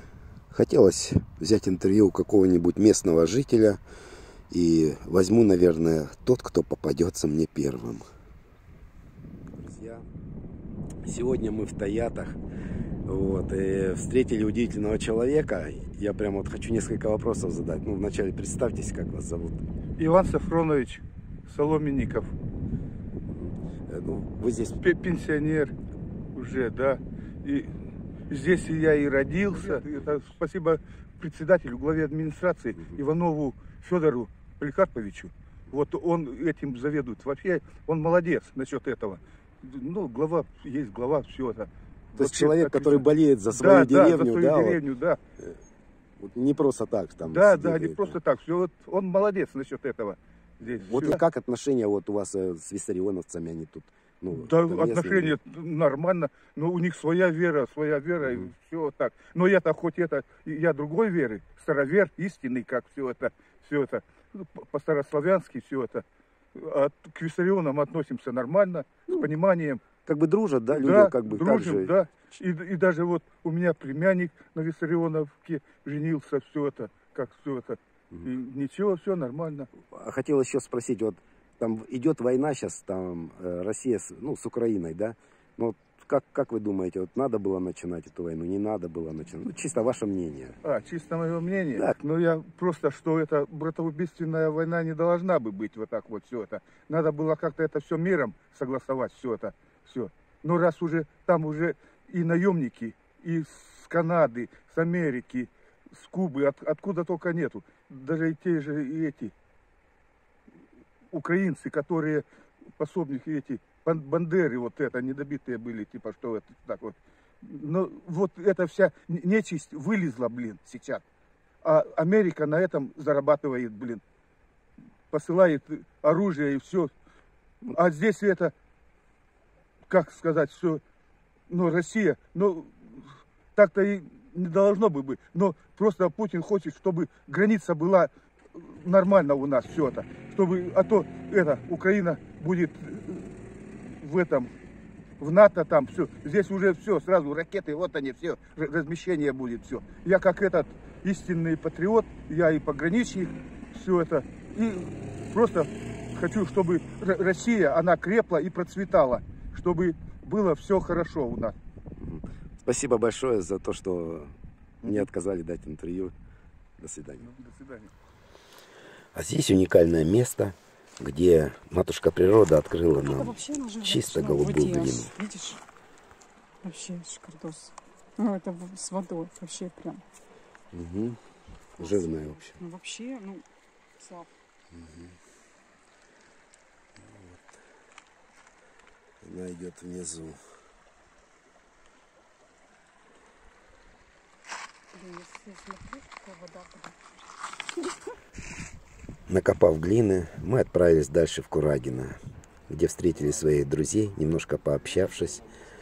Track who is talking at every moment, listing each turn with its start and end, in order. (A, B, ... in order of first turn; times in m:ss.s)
0:00.5-0:03.8 A
0:04.5-0:08.1 A
0:09.5-0:10.1 A
0:11.0-0:12.4 A
0:13.1-0:19.6 A
0:20.0-0:22.3 B
0:23.3-0:24.8 A
0:24.8-0:25.7 B
0:26.4-0:27.8 B
0:28.3-0:45.2 B
0:42.2-0:44.8 A
0:46.2-0:48.2 A
0:47.2-0:51.2 B
0:50.8-0:55.4 A
0:54.3-1:06.0 B
1:06.6-1:09.8 B
1:10.1-1:12.0 A
1:10.7-1:19.7 B
1:19.9-1:30.6 A
1:30.6-1:49.3 B
1:51.1-1:52.2 B
1:52.8-2:01.0 B
2:01.6-2:04.0 B
2:05.1-2:06.9 B
2:07.6-2:08.5 B
2:09.9-2:10.8 B
2:11.5-2:13.0 B
2:13.6-2:23.4 B
2:24.0-2:24.5 B
2:25.2-2:41.6 B
2:42.0-2:46.1 A
2:44.8-2:45.1 B
2:46.8-2:47.3 A
2:47.2-2:47.9 B
2:49.1-2:55.2 A
2:53.0-2:55.6 C
2:56.6-3:00.0 C
3:00.7-3:01.2 A
3:01.8-3:02.6 A
3:01.8-3:03.5 C
3:04.0-3:04.3 C
3:04.7-3:05.1 A
3:09.2-3:10.4 A
3:14.9-3:17.1 C
3:19.3-3:25.4 A